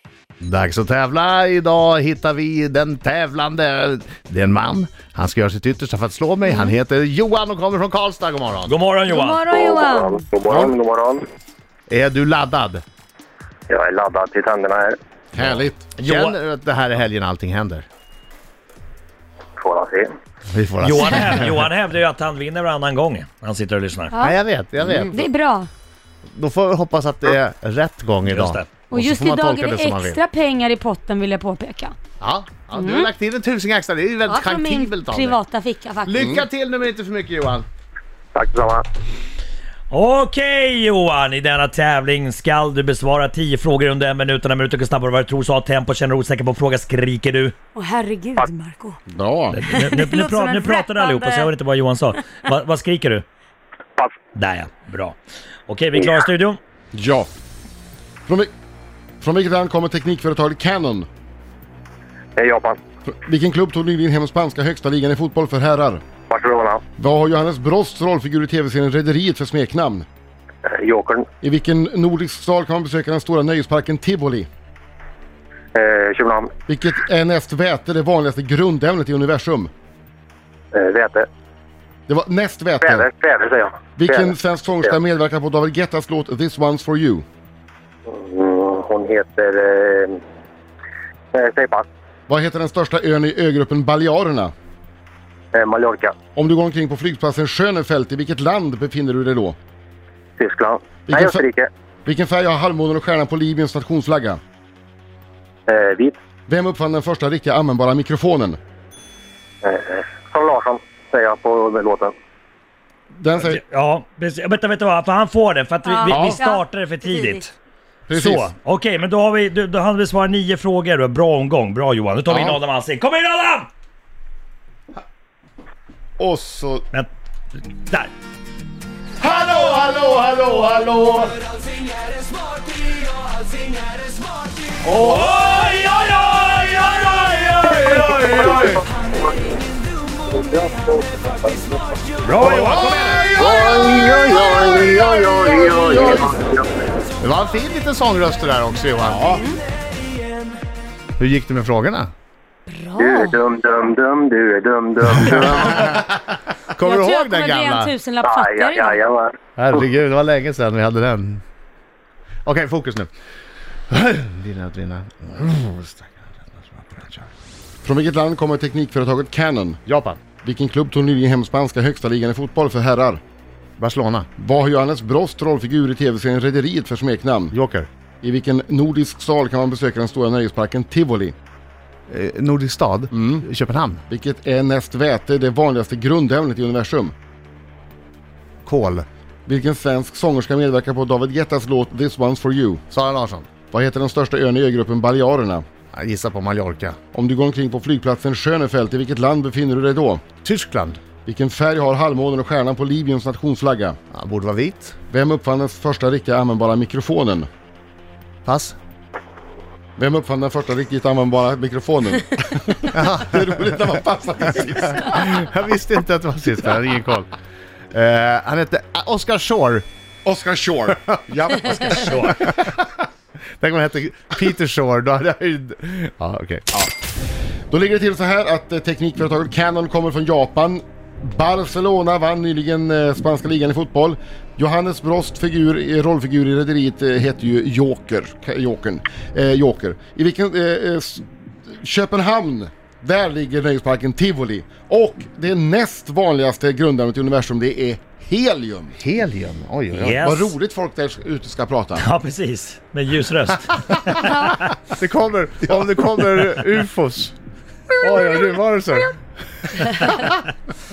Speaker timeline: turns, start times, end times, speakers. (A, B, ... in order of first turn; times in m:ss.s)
0:00.4-0:08.7 A
0:06.4-0:06.7 B
0:08.7-0:09.4 C
0:09.0-0:10.2 B
0:09.5-0:11.2 D
0:11.9-0:12.8 A
0:13.7-0:15.0 D
0:15.4-0:17.8 A
0:15.4-0:15.8 E
0:15.9-0:16.4 C
0:19.6-0:20.1 D
0:20.5-0:21.6 A
0:20.8-0:24.1 C
0:24.1-0:24.4 B
0:24.2-0:25.3 A
0:25.0-0:25.7 B
0:26.3-0:30.2 A
0:28.2-0:28.8 C
0:28.8-0:32.0 B
0:32.2-0:35.4 A
0:32.7-0:33.1 B
0:34.2-0:36.2 B
0:36.0-0:37.6 A
0:36.1-0:36.4 E
0:38.3-0:38.8 D
0:39.9-0:47.5 C
0:47.7-0:49.0 B
0:49.1-0:49.6 E
0:49.5-0:53.2 C
0:49.6-0:51.5 B
0:54.3-0:55.2 C
0:55.7-0:56.6 C
0:55.9-0:56.2 D
0:56.9-0:57.3 E
0:59.2-1:01.1 E
1:02.4-1:02.8 D
1:03.1-1:06.0 E
1:06.3-1:06.8 D
1:07.0-1:10.0 E
1:10.6-1:11.3 D
1:11.4-1:14.5 E
1:15.7-1:16.5 D
1:16.7-1:19.7 E
1:20.7-1:21.3 D
1:22.1-1:23.1 E
1:22.8-1:25.0 D
1:23.9-1:27.2 E
1:28.1-1:30.2 D
1:31.3-1:31.8 D
1:32.3-1:34.5 E
1:35.5-1:36.2 D
1:36.3-1:39.6 E
1:40.4-1:41.7 D
1:41.0-1:41.4 E
1:42.0-1:44.4 E
1:45.7-1:46.2 D
1:46.5-1:48.6 E
1:49.6-1:52.1 D
1:53.2-1:53.6 E
1:53.4-1:57.5 C
1:55.8-1:57.4 B
1:56.0-1:56.4 E
1:58.1-1:58.5 E
1:58.1-2:03.7 C
2:02.3-2:02.6 E
2:06.2-2:06.8 E
2:07.8-2:08.1 C
2:09.2-2:11.1 E
2:09.7-2:10.9 A
2:14.8-2:18.7 C
2:17.8-2:18.8 A
2:18.2-2:18.8 D
2:20.3-2:21.8 D
2:22.2-2:23.2 C
2:22.4-2:24.9 A
2:23.3-2:26.7 D
2:27.2-2:29.4 A
2:29.2-2:29.6 B
2:31.2-2:32.1 A
2:32.7-2:33.4 B
2:33.0-2:36.0 D
2:35.0-2:37.9 A
2:36.8-2:39.0 B
2:38.2-2:39.3 D
2:39.6-2:41.4 A
2:42.4-2:43.1 A
2:43.9-2:47.3 A
2:47.8-2:49.8 E
2:49.9-2:50.2 A
2:50.4-2:53.2 E
2:53.8-2:54.3 A
2:54.4-2:57.5 E
2:57.5-2:57.9 A
2:58.2-3:01.3 E
3:02.1-3:04.0 A
3:03.1-3:03.4 E
3:04.1-3:07.1 E
3:08.6-3:09.0 A
3:09.5-3:12.8 E
3:12.9-3:13.5 A
3:13.7-3:15.6 E
3:15.9-3:17.0 A
3:17.1-3:20.2 E
3:20.4-3:21.0 A
3:21.2-3:24.0 E
3:24.1-3:25.0 A
3:25.1-3:27.5 E
3:28.4-3:28.8 A
3:30.0-3:35.3 E
3:32.9-3:33.7 A
3:35.0-3:37.3 A
3:37.9-3:39.9 A
3:40.2-3:42.6 E
3:41.8-3:42.4 C
3:42.1-3:42.8 A
3:43.6-3:46.7 A
3:47.7-4:08.9 E
4:09.0-4:10.2 A
4:09.9-4:10.5 C
4:10.2-4:12.0 E
4:12.0-4:14.6 C
4:14.9-4:17.4 A
4:18.0-4:19.2 A
4:20.0-4:20.3 C